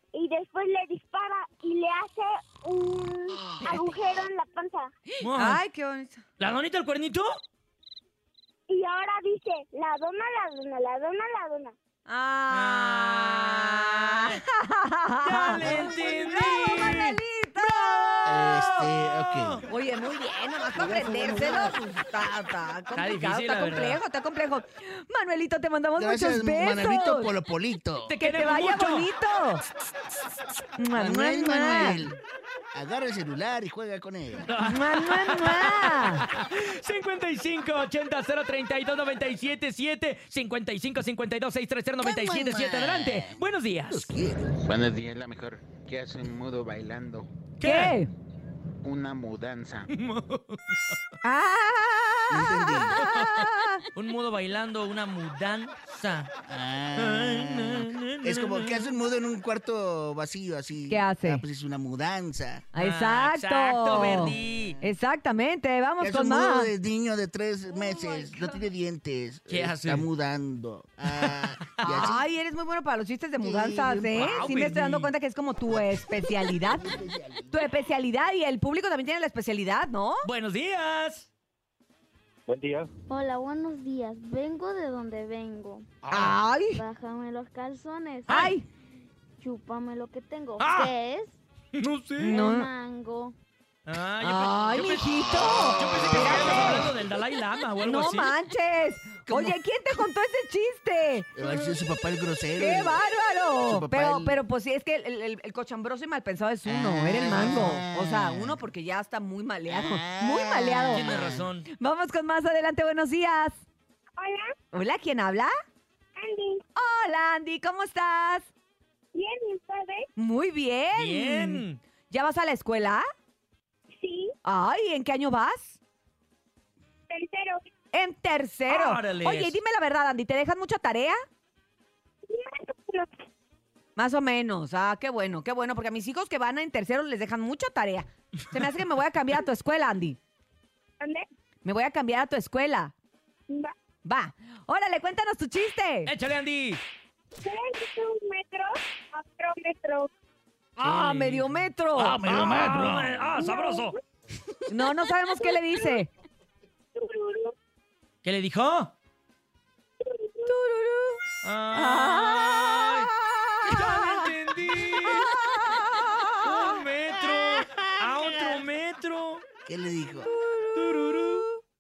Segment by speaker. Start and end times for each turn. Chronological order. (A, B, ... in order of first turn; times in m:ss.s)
0:00.1-0:04.9 A
0:03.6-0:03.9 B
0:05.2-0:05.6 C
0:05.2-0:06.2 B
0:06.4-0:07.4 C
0:08.7-0:11.8 A
0:12.1-0:18.8 B
0:12.5-0:14.4 C
0:15.2-0:19.6 C
0:18.3-0:19.6 D
0:19.6-0:27.3 B
0:20.8-0:21.8 D
0:22.9-0:24.0 C
0:26.0-0:28.2 D
0:28.1-0:29.1 C
0:28.2-0:29.6 B
0:30.8-0:32.1 B
0:31.0-0:32.2 D
0:32.7-0:34.4 D
0:34.5-0:44.1 C
0:34.6-0:36.2 B
0:42.0-0:44.6 D
0:44.6-0:47.3 E
0:47.6-0:48.0 C
0:47.6-0:48.1 B
0:48.8-0:49.9 E
0:49.9-0:51.0 C
0:51.2-0:53.8 B
0:52.3-0:53.0 D
0:53.0-0:56.3 C
0:56.5-1:02.7 D
0:57.0-0:58.9 C
1:00.9-1:01.4 B
1:02.8-1:06.7 B
1:02.8-1:04.8 C
1:06.0-1:12.2 D
1:08.1-1:08.5 B
1:09.5-1:10.1 C
1:11.2-1:12.1 C
1:11.8-1:17.0 B
1:13.4-1:14.4 D
1:14.1-1:15.1 C
1:16.5-1:17.6 D
1:17.5-1:20.3 B
1:20.2-1:21.3 C
1:22.5-1:22.9 E
1:23.1-1:25.9 F
1:26.0-1:26.4 C
1:26.1-1:26.8 B
1:26.7-1:28.5 F
1:28.3-1:28.6 C
1:28.3-1:28.7 B
1:29.4-1:31.4 F
1:30.6-1:30.9 C
1:31.8-1:32.4 C
1:32.2-1:32.7 B
1:32.3-1:33.3 F
1:33.9-1:38.3 C
1:34.2-1:36.9 B
1:37.8-1:41.3 B
1:39.3-1:39.6 D
1:41.4-1:43.0 D
1:42.6-1:51.0 B
1:43.7-1:44.4 D
1:46.6-1:48.6 D
1:47.2-1:47.7 C
1:49.7-1:51.5 D
1:50.9-1:51.7 C
1:51.8-1:53.6 B
1:54.2-1:54.5 A
1:54.7-1:55.5 B
1:56.2-1:56.6 A
1:56.8-1:58.5 B
1:59.1-2:00.1 A
2:00.2-2:03.0 B
2:01.0-2:01.8 C
2:04.0-2:04.3 A
2:04.4-2:05.8 B
2:07.1-2:07.6 A
2:07.9-2:11.2 B
2:08.7-2:09.6 C
2:12.3-2:13.1 A
2:14.0-2:20.2 B
2:21.0-2:21.2 A
2:21.6-2:22.9 B
2:24.0-2:26.1 B
2:26.1-2:26.8 C
2:27.4-2:30.1 A
2:30.8-2:32.2 B
2:30.8-2:34.0 C
2:32.0-2:33.3 D
2:33.4-2:33.9 A
2:34.7-2:36.1 B
2:35.4-2:36.0 A
2:37.0-2:37.6 A
2:38.2-2:39.0 C
2:40.0-2:40.5 A
2:40.5-2:41.2 B
2:41.4-2:43.1 C
2:41.7-2:44.2 B
2:43.6-2:49.4 C
2:45.0-2:46.5 B
2:49.7-2:50.3 D
2:50.3-2:51.6 B
2:50.7-2:51.5 C